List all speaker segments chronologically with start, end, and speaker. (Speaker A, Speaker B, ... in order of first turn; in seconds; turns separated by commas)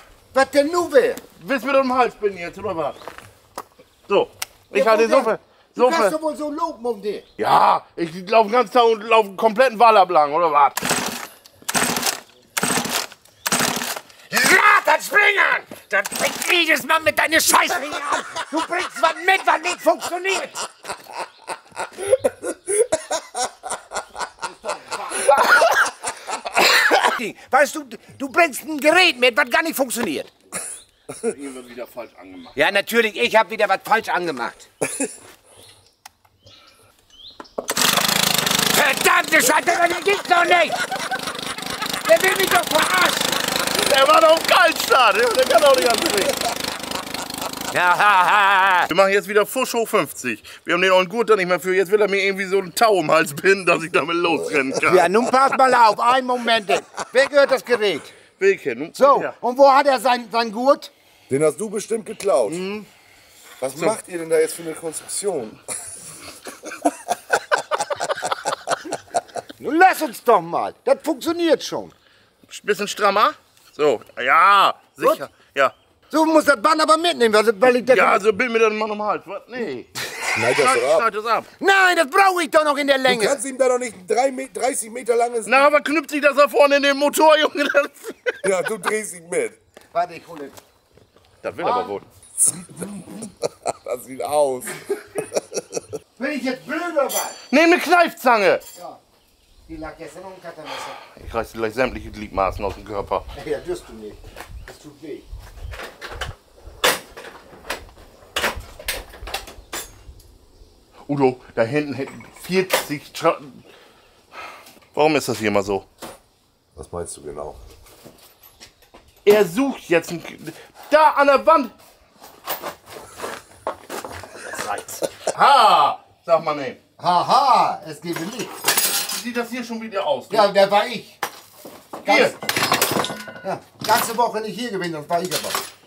Speaker A: 0.3-1.2, Speaker B: 1.4-3.0, Speaker B: 4.1-6.1, Speaker A: 4.7-7.2, Speaker B: 7.4-10.9, Speaker A: 14.3-20.6, Speaker A: 24.7-25.6, Speaker A: 26.9-30.3, Speaker B: 31.1-32.7, Speaker A: 32.5-34.7, Speaker A: 38.7-40.8, Speaker A: 42.0-43.3, Speaker B: 43.7-46.3, Speaker A: 47.7-48.9, Speaker B: 48.9-55.3, Speaker A: 54.8-58.1, Speaker B: 58.4-59.3, Speaker A: 58.9-60.9, Speaker C: 61.3-62.6, Speaker A: 62.5-62.9, Speaker C: 63.6-65.6, Speaker A: 69.6-71.9, Speaker B: 72.5-75.7, Speaker A: 75.0-75.3, Speaker A: 76.1-78.2, Speaker B: 77.8-79.9, Speaker C: 80.3-81.0, Speaker B: 80.4-81.5, Speaker A: 81.6-83.4, Speaker C: 83.1-85.7, Speaker B: 85.5-88.4, Speaker C: 88.4-89.5, Speaker A: 89.9-90.6, Speaker B: 91.4-92.0, Speaker A: 91.6-92.0, Speaker C: 92.4-94.8, Speaker A: 96.2-97.4, Speaker B: 97.5-98.6, Speaker A: 99.7-101.0, Speaker B: 101.2-103.2, Speaker A: 103.3-105.2, Speaker B: 111.1-113.6, Speaker B: 114.9-115.9, Speaker C: 116.8-117.6, Speaker B: 119.2-121.7, Speaker C: 124.7-124.9, Speaker B: 125.2-126.8, Speaker A: 127.0-128.6, Speaker B: 129.0-130.5, Speaker A: 130.3-131.2, Speaker A: 132.0-132.4, Speaker B: 132.0-132.3, Speaker A: 133.4-135.6